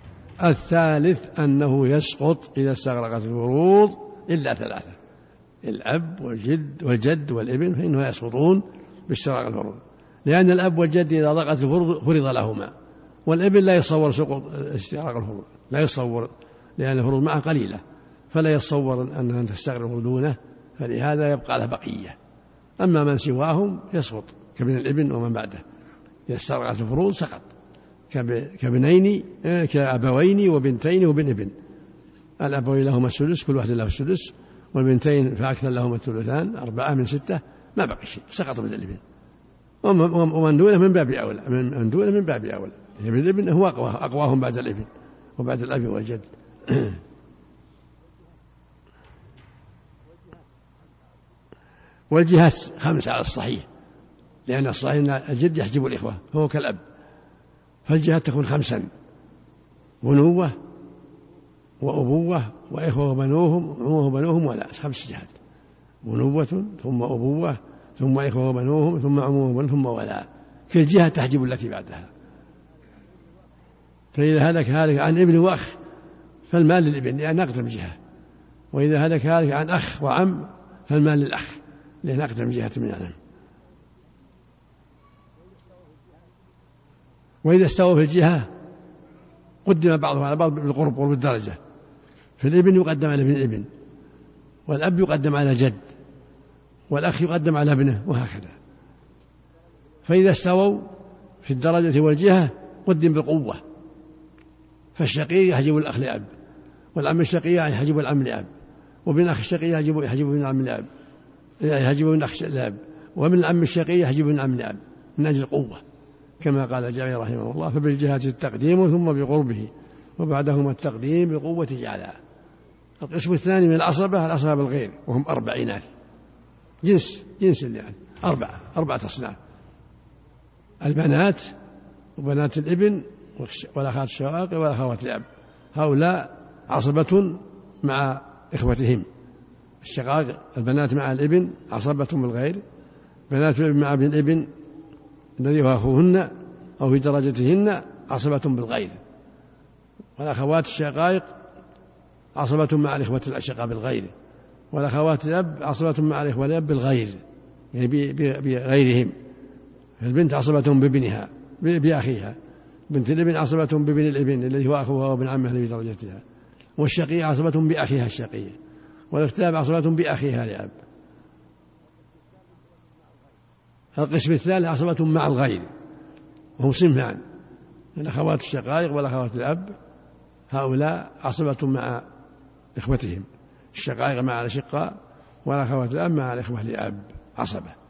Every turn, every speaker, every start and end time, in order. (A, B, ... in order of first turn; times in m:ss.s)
0:00.4-0:05.0 A
0:05.6-0:12.7 A
0:13.2-0:17.8 A
0:18.3-0:22.2 A
0:22.8-0:25.6 A
0:26.3-0:27.5 A
0:28.1-0:31.5 A
0:32.4-0:39.0 A
0:39.8-0:47.0 A
0:52.1-0:53.7 A
0:54.5-0:56.8 A
0:57.8-0:58.9 A
1:00.0-1:00.5 A
1:01.8-1:05.3 A
1:06.0-1:12.1 A
1:14.1-1:15.8 A
1:16.5-1:18.0 A
1:18.7-1:23.2 A
1:27.4-1:28.5 A
1:29.6-1:31.6 A
1:32.4-1:33.7 A
1:34.7-1:35.8 A
1:36.9-1:38.5 A
1:40.0-1:40.9 A
1:41.4-1:43.6 A
1:45.0-1:46.3 A
1:46.9-1:48.5 A
1:49.1-1:50.9 A
1:51.6-1:55.8 A
1:56.4-2:02.2 A
2:03.0-2:05.9 A
2:06.8-2:09.4 A
2:10.8-2:11.5 A
2:12.2-2:19.1 A
2:19.8-2:22.6 A
2:23.3-2:24.5 A
2:25.4-2:29.0 A
2:30.2-2:31.3 A
2:32.4-2:34.1 A
2:34.7-2:37.2 A
2:37.7-2:39.1 A
2:40.0-2:42.4 A
2:42.9-2:46.2 A
2:46.8-2:48.6 A
2:49.1-2:50.8 A
2:54.0-2:55.7 A
2:56.6-2:57.2 A
2:58.0-2:59.7 A
3:00.5-3:02.1 A
3:02.8-3:07.8 A